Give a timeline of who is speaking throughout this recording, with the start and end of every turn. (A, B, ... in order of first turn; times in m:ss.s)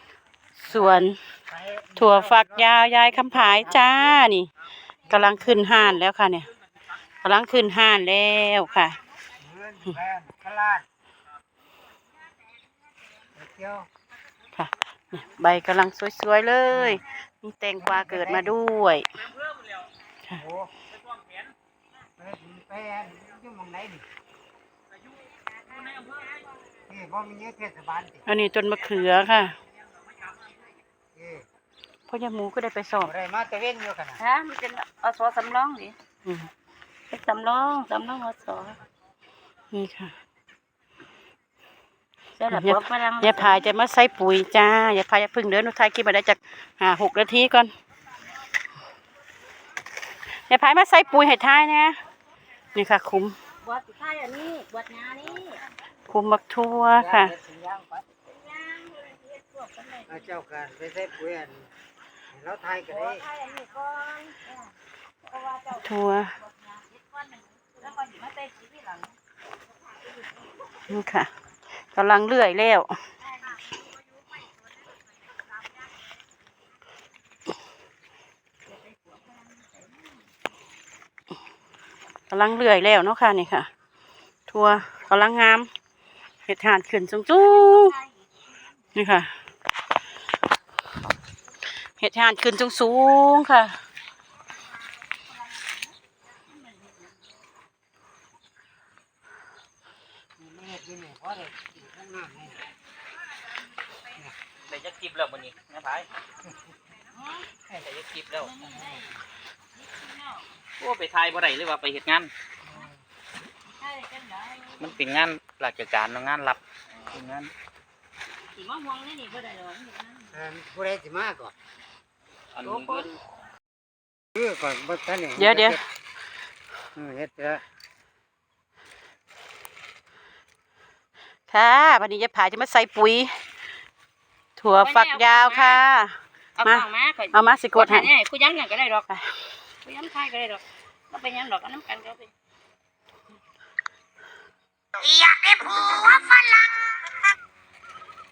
0:00.6-0:01.2 A
0:01.5-0:04.0 B
0:02.0-0:04.5 A
0:05.1-0:06.5 A
0:07.2-0:09.0 A
0:09.4-0:10.9 B
0:13.4-0:13.9 B
0:14.6-0:19.1 A
0:17.8-0:18.4 B
0:20.4-0:20.7 B
0:22.2-0:24.0 B
0:26.9-0:28.2 B
0:28.3-0:29.6 A
0:31.2-0:31.4 B
0:32.1-0:33.1 A
0:33.1-0:34.2 B
0:34.2-0:36.0 C
0:37.1-0:38.8 C
0:39.7-0:40.1 A
0:42.4-0:43.6 C
0:42.5-0:47.7 A
0:50.5-0:52.0 A
0:52.7-0:53.4 A
0:53.6-0:55.6 C
0:56.1-0:57.3 A
0:56.9-0:58.0 B
0:58.2-1:00.3 C
1:00.1-1:01.7 B
1:02.3-1:03.2 B
1:02.8-1:04.7 C
1:05.2-1:09.2 C
1:05.7-1:06.3 A
1:10.9-1:11.3 A
1:11.9-1:13.0 A
1:13.3-1:13.7 C
1:18.7-1:20.2 C
1:22.3-1:23.7 A
1:24.5-1:25.7 A
1:26.5-1:28.0 A
1:27.4-1:28.2 C
1:28.9-1:29.3 A
1:32.0-1:33.8 A
1:36.5-1:37.0 C
1:40.4-1:42.6 B
1:44.7-1:46.1 D
1:47.1-1:47.5 C
1:47.8-1:48.5 D
1:48.3-1:49.2 C
1:49.8-1:50.4 C
1:50.8-1:52.3 D
1:53.7-1:55.0 C
1:54.8-1:56.6 D
1:57.1-1:57.5 D
1:58.5-2:00.4 C
2:00.3-2:01.5 B
2:02.6-2:03.1 D
2:02.6-2:03.2 C
2:04.4-2:05.8 B
2:05.4-2:05.8 A
2:07.0-2:07.6 B
2:11.5-2:13.3 A
2:14.6-2:18.1 A
2:14.7-2:15.8 C
2:16.6-2:19.1 C
2:19.8-2:22.3 C
2:25.0-2:27.0 C